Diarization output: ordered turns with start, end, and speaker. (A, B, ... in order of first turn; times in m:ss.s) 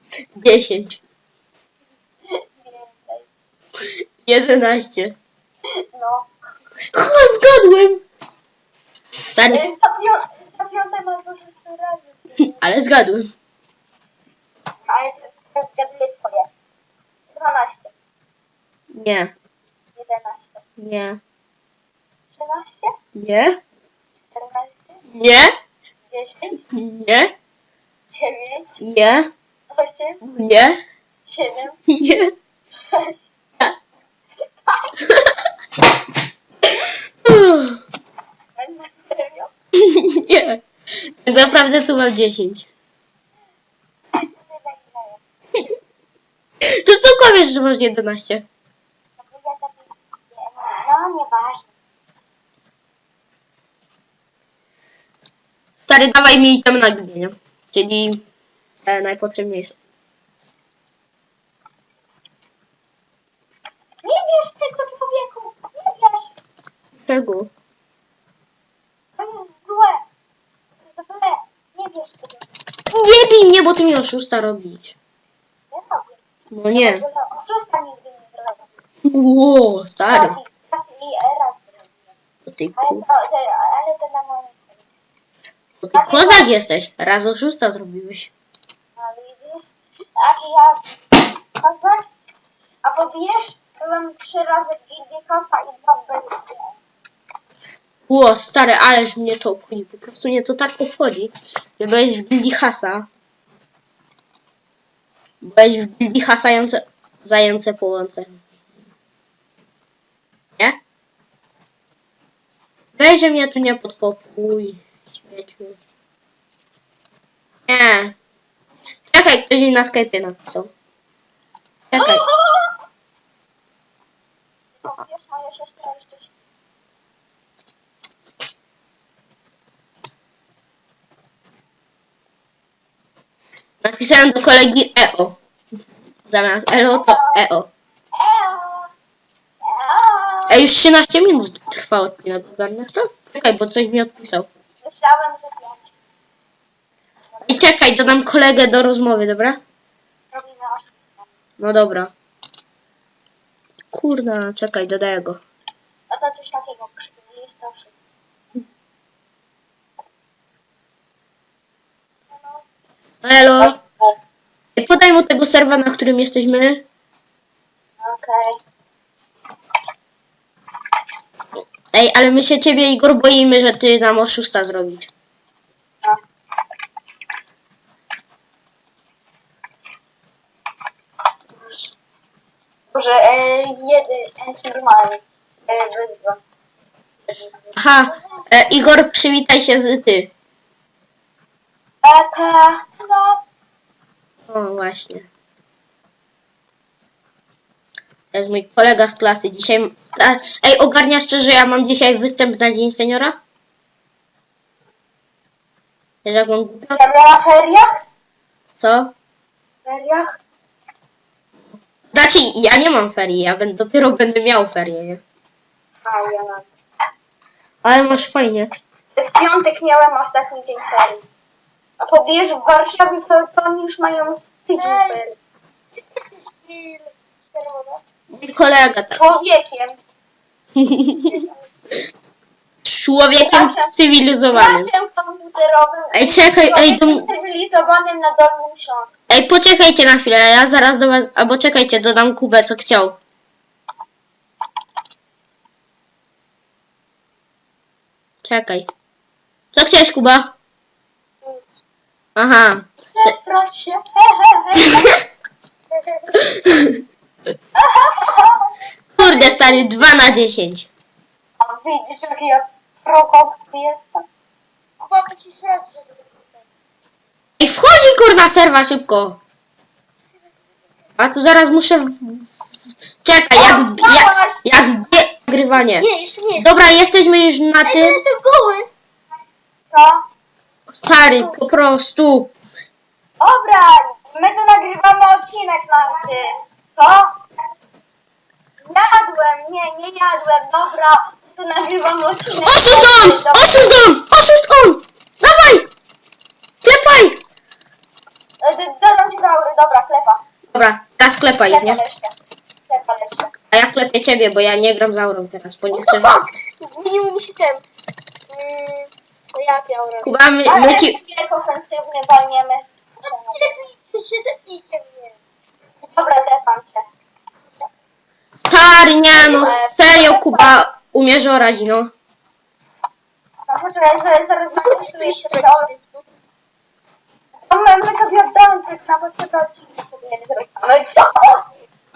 0:00.4-0:01.0 A
0:02.3-0:03.3 B
0:04.2-0:05.2 A
0:05.8-0:06.3 B
0:06.9-0:08.0 A
0:09.3-0:09.7 A
0:09.5-0:12.6 B
0:12.4-0:13.3 A
0:14.9-0:16.5 B
0:17.3-0:17.9 B
0:18.9-0:19.3 A
0:20.0-0:20.6 B
0:20.8-0:21.2 A
0:22.3-0:22.9 B
0:23.2-0:23.6 A
0:24.3-0:25.0 B
0:25.1-0:25.5 A
0:26.1-0:26.6 B
0:26.7-0:27.3 A
0:28.2-0:28.7 B
0:28.8-0:29.3 A
0:29.7-0:30.2 B
0:30.2-0:30.8 A
0:31.3-0:31.8 B
0:31.9-0:32.3 A
0:32.7-0:33.2 B
0:34.7-0:34.9 B
0:37.3-0:37.8 A
0:38.6-0:39.5 B
0:39.9-0:40.6 A
0:41.2-0:42.7 A
0:44.2-0:45.2 B
0:46.8-0:48.5 A
0:49.2-0:51.7 B
0:55.9-0:58.2 A
0:58.8-0:59.8 A
1:04.0-1:06.3 B
1:07.0-1:07.5 A
1:09.2-1:10.0 B
1:10.9-1:12.6 B
1:12.9-1:15.0 A
1:15.7-1:16.2 B
1:16.5-1:17.0 A
1:16.7-1:18.8 B
1:19.0-1:20.4 A
1:20.1-1:21.9 B
1:22.5-1:23.1 A
1:22.8-1:24.8 B
1:25.8-1:28.3 A
1:25.9-1:26.5 B
1:29.0-1:30.8 B
1:31.6-1:32.1 B
1:32.8-1:36.8 B
1:38.1-1:43.1 A
1:45.4-1:48.4 A
1:53.0-1:55.8 A
1:57.7-1:58.1 A
1:59.1-2:00.7 A
2:01.9-2:02.2 A
2:02.1-2:02.4 B
2:04.8-2:06.4 B
2:13.8-2:15.4 A
2:16.3-2:17.7 A
2:16.9-2:17.5 B
2:18.2-2:18.9 B
2:19.6-2:20.7 B
2:20.5-2:24.5 A
2:24.8-2:25.9 B
2:27.3-2:27.7 B
2:27.5-2:29.6 A
2:30.3-2:31.3 B
2:31.6-2:32.1 A
2:33.9-2:35.4 A
2:36.1-2:38.0 B
2:42.3-2:42.6 B
2:43.2-2:43.8 A
2:43.6-2:44.1 B
2:44.8-2:46.8 A
2:48.0-2:48.6 B
2:51.9-2:55.1 A
3:01.5-3:01.9 B
3:02.9-3:06.4 B
3:07.3-3:08.4 B
3:07.8-3:10.3 A
3:12.0-3:13.4 B
3:14.5-3:15.3 A
3:18.3-3:23.4 A
3:26.2-3:27.0 A
3:26.9-3:28.0 B
3:28.8-3:29.1 A
3:29.9-3:30.4 B
3:32.1-3:35.2 A
3:36.0-3:36.6 B
3:37.8-3:38.7 A
3:39.2-3:41.3 B
3:42.0-3:45.4 B
3:44.8-3:45.2 C
3:46.2-3:48.0 C
3:48.3-3:49.2 A
3:49.1-3:50.0 B
3:50.8-3:51.3 A
3:52.8-3:54.9 A
3:53.4-3:53.9 B
3:54.5-3:59.1 B
3:56.1-3:57.3 A
3:59.3-4:03.2 A
4:08.4-4:08.9 A
4:09.7-4:10.5 A
4:11.4-4:11.8 C
4:12.4-4:13.3 A
4:13.1-4:15.2 B
4:15.9-4:16.4 C
4:16.4-4:17.0 A
4:17.8-4:19.8 B
4:19.2-4:20.9 A
4:21.6-4:24.2 B
4:25.0-4:26.5 C
4:27.6-4:29.4 A
4:31.2-4:32.5 A
4:33.2-4:38.2 A
4:33.5-4:34.6 B
4:35.7-4:36.7 C
4:37.8-4:38.9 C
4:39.9-4:40.2 B
4:40.9-4:42.5 A
4:41.2-4:41.5 B
4:43.4-4:47.3 B
4:48.8-4:54.0 B
4:52.6-4:55.9 A
4:56.8-4:57.4 A
4:58.6-5:00.4 B
5:00.7-5:02.0 A
5:01.6-5:02.4 B
5:02.9-5:03.5 B
5:03.7-5:06.3 A
5:05.9-5:07.8 C
5:08.5-5:10.4 C
5:10.2-5:11.2 A
5:10.6-5:13.7 B
5:13.2-5:15.4 C
5:16.1-5:17.0 B
5:18.7-5:22.1 A
5:19.3-5:20.8 B
5:23.7-5:25.9 B
5:24.8-5:26.2 C
5:27.7-5:31.7 B